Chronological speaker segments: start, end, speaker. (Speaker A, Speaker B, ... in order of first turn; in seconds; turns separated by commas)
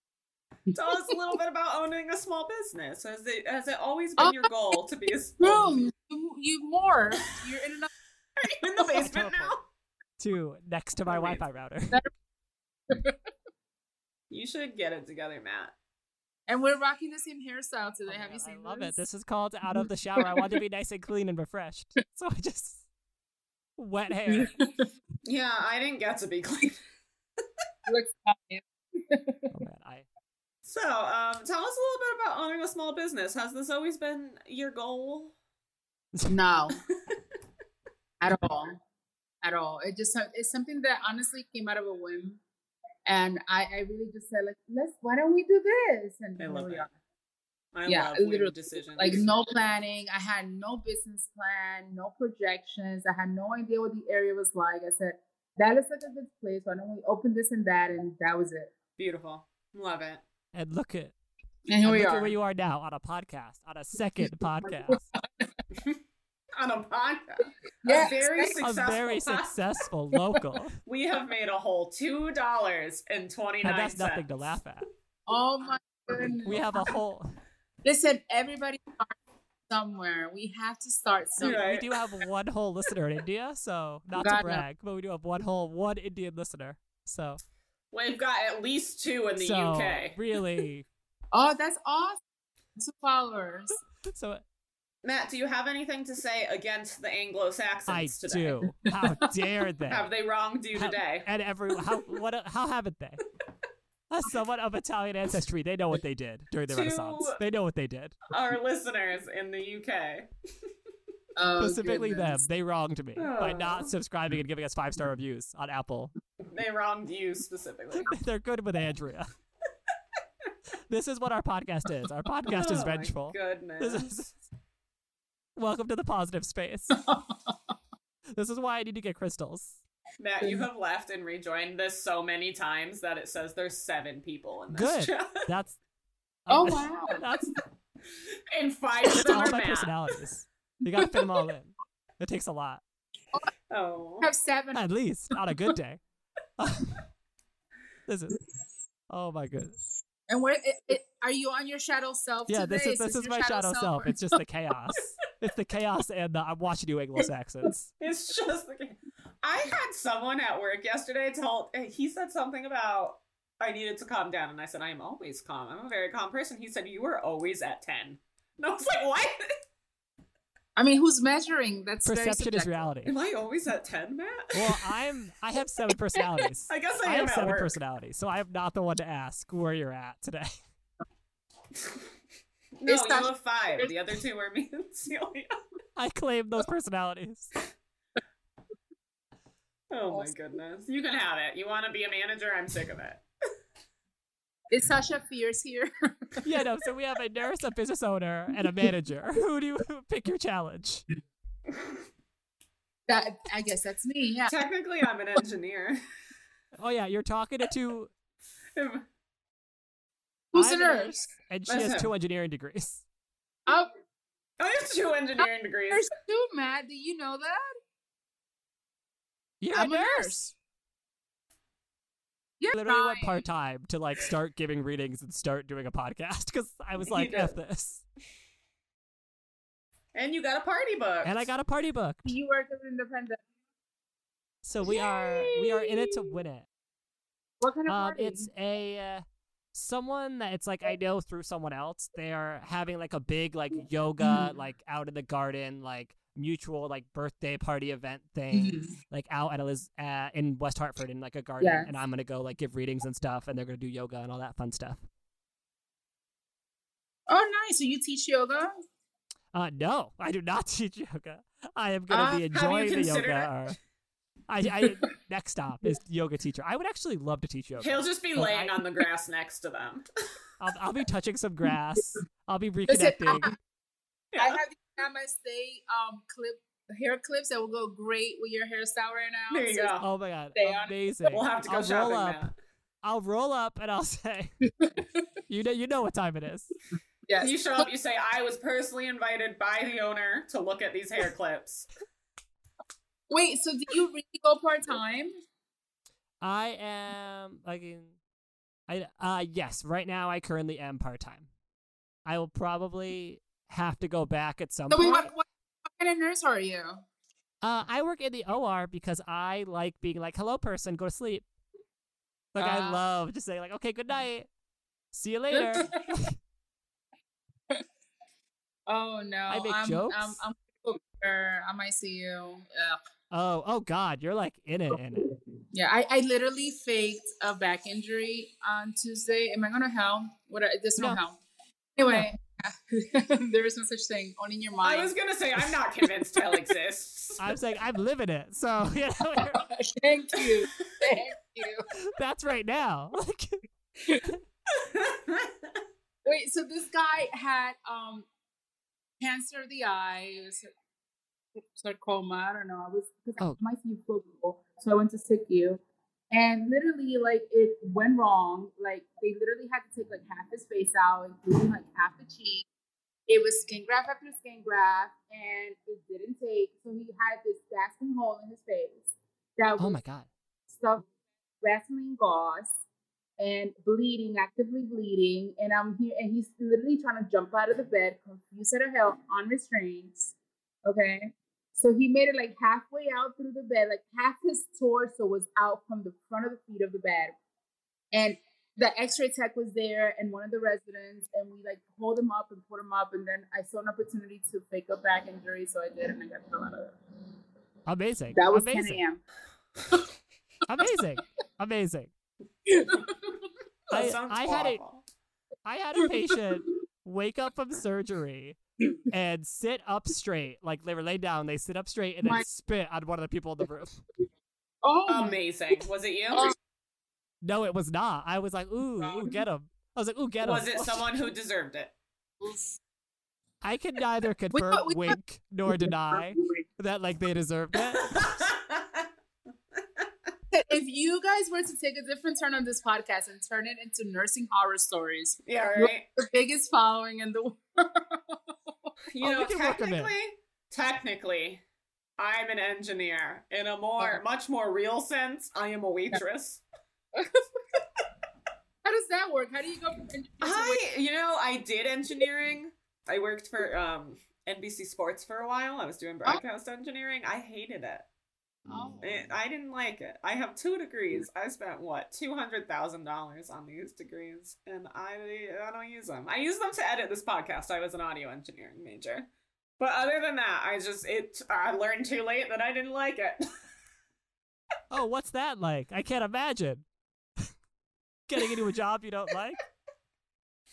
Speaker A: 0.7-1.2, Speaker B: 0.7-5.8, Speaker A: 4.2-4.5, Speaker A: 5.4-7.9, Speaker B: 8.4-9.6, Speaker C: 8.9-9.6, Speaker C: 10.2-12.0, Speaker B: 11.1-11.4, Speaker A: 12.9-13.2, Speaker B: 14.3-15.7, Speaker A: 16.5-19.0, Speaker C: 18.1-22.8, Speaker A: 19.7-20.2, Speaker C: 23.8-24.5, Speaker A: 24.3-24.9, Speaker B: 25.2-26.8, Speaker A: 27.9-29.5, Speaker C: 29.5-30.1, Speaker B: 30.6-35.3, Speaker A: 36.3-36.8, Speaker A: 38.2-38.8, Speaker A: 39.4-42.4, Speaker A: 43.0-46.9, Speaker B: 46.4-46.9, Speaker B: 47.7-49.3, Speaker A: 47.9-58.7, Speaker B: 59.0-60.2, Speaker C: 60.5-61.1, Speaker A: 61.7-62.3, Speaker C: 61.8-65.0, Speaker A: 64.8-65.5, Speaker B: 66.5-69.5, Speaker A: 67.8-68.6, Speaker C: 68.6-70.8, Speaker B: 70.8-74.3, Speaker C: 73.6-74.8, Speaker A: 75.3-76.9, Speaker C: 76.4-77.3, Speaker A: 77.8-79.1, Speaker A: 79.7-81.7, Speaker B: 81.4-82.0, Speaker C: 81.4-87.4, Speaker A: 84.2-84.6, Speaker B: 87.9-90.2, Speaker C: 89.4-90.8, Speaker A: 91.3-92.2, Speaker A: 92.8-93.8, Speaker C: 94.0-94.4, Speaker B: 95.0-98.6, Speaker C: 97.9-100.1, Speaker A: 98.8-99.3, Speaker B: 99.9-101.3, Speaker C: 100.7-103.2, Speaker C: 104.1-108.2, Speaker B: 106.7-107.4, Speaker B: 108.3-110.3, Speaker A: 111.3-112.4, Speaker C: 111.6-116.1, Speaker B: 113.2-113.9, Speaker B: 116.4-118.1, Speaker C: 118.0-119.3, Speaker C: 120.9-124.4, Speaker B: 122.5-124.1, Speaker C: 125.5-127.0, Speaker A: 126.9-127.6, Speaker C: 128.3-129.8, Speaker B: 130.2-135.4, Speaker C: 134.7-135.8, Speaker C: 136.4-137.5, Speaker A: 136.5-137.2, Speaker B: 138.5-139.9, Speaker C: 139.1-142.8, Speaker A: 141.0-141.2, Speaker B: 143.7-144.3, Speaker A: 144.2-144.8, Speaker C: 144.7-146.0, Speaker C: 146.6-147.0, Speaker C: 148.1-148.4, Speaker C: 149.1-149.8, Speaker A: 150.3-154.4, Speaker C: 152.5-157.9, Speaker B: 158.0-169.4, Speaker A: 170.8-172.8, Speaker C: 172.1-173.1, Speaker B: 173.1-174.8, Speaker C: 174.5-180.5, Speaker B: 176.7-177.8, Speaker B: 182.8-185.5, Speaker A: 182.9-183.9, Speaker C: 186.0-187.5, Speaker B: 189.9-193.2, Speaker A: 194.7-196.4, Speaker C: 196.4-201.0, Speaker A: 203.1-204.5, Speaker B: 204.5-206.0, Speaker C: 206.8-208.1, Speaker B: 208.8-209.0, Speaker A: 210.5-211.3, Speaker C: 210.5-213.0, Speaker B: 211.7-212.1, Speaker B: 214.6-216.1, Speaker A: 215.9-217.7, Speaker C: 219.6-220.5, Speaker A: 219.7-220.5, Speaker A: 222.6-223.4, Speaker C: 222.7-228.0, Speaker B: 227.0-227.6, Speaker B: 230.1-231.5, Speaker C: 231.2-232.3, Speaker A: 232.2-233.4, Speaker C: 234.6-236.7, Speaker A: 234.8-236.2, Speaker A: 237.6-238.5, Speaker C: 237.9-255.0, Speaker A: 244.2-244.5, Speaker A: 248.5-248.9, Speaker A: 251.6-251.9, Speaker A: 257.3-258.8, Speaker C: 259.5-263.8, Speaker B: 262.1-263.5, Speaker C: 264.5-268.7, Speaker B: 267.8-270.1, Speaker C: 270.6-273.5, Speaker A: 272.9-273.5, Speaker B: 274.3-274.6, Speaker A: 274.4-279.9, Speaker B: 279.5-280.1, Speaker C: 280.0-282.5, Speaker A: 280.5-281.0, Speaker B: 281.3-282.5, Speaker C: 283.0-284.5, Speaker A: 284.8-285.1, Speaker C: 285.5-286.7, Speaker A: 287.3-287.9, Speaker B: 287.4-291.9, Speaker A: 293.3-295.3, Speaker C: 296.4-298.1, Speaker C: 298.9-301.5, Speaker C: 302.2-305.3, Speaker A: 304.9-307.0, Speaker C: 307.6-311.4, Speaker C: 312.5-314.5, Speaker A: 312.6-313.0, Speaker C: 315.1-316.4, Speaker A: 315.5-316.1, Speaker A: 318.9-323.0, Speaker C: 319.5-320.4, Speaker C: 323.3-325.2, Speaker A: 325.7-331.4, Speaker A: 331.9-335.7, Speaker B: 334.8-337.4, Speaker C: 337.4-339.6, Speaker A: 339.4-341.9, Speaker C: 342.1-343.6, Speaker A: 344.1-344.3, Speaker B: 344.7-345.8, Speaker A: 346.2-348.3, Speaker A: 349.2-350.7, Speaker A: 351.7-362.7, Speaker A: 363.3-369.0, Speaker A: 369.6-370.0, Speaker C: 369.8-370.3, Speaker A: 370.7-371.1, Speaker A: 371.6-372.7, Speaker A: 373.4-380.3, Speaker A: 380.9-387.4, Speaker A: 388.1-396.9, Speaker C: 397.9-399.0, Speaker A: 398.3-399.2, Speaker C: 400.7-402.1, Speaker A: 402.7-403.4, Speaker B: 403.9-405.0, Speaker C: 403.9-404.8, Speaker C: 405.6-408.6, Speaker A: 406.0-406.4, Speaker C: 409.1-414.0, Speaker A: 414.8-415.8, Speaker B: 415.1-416.5, Speaker C: 417.4-421.1, Speaker B: 420.4-421.9, Speaker A: 422.4-422.8, Speaker C: 423.6-428.5, Speaker A: 424.5-425.2, Speaker B: 428.0-429.1, Speaker B: 429.8-430.1, Speaker A: 430.5-438.9, Speaker B: 435.4-436.1, Speaker B: 439.1-441.6, Speaker C: 439.2-440.1, Speaker B: 442.2-446.6, Speaker A: 447.1-447.5, Speaker A: 448.8-450.8, Speaker B: 450.4-458.1, Speaker A: 458.7-459.3, Speaker B: 459.0-469.3, Speaker B: 469.8-473.4, Speaker C: 474.9-476.8, Speaker C: 478.3-479.6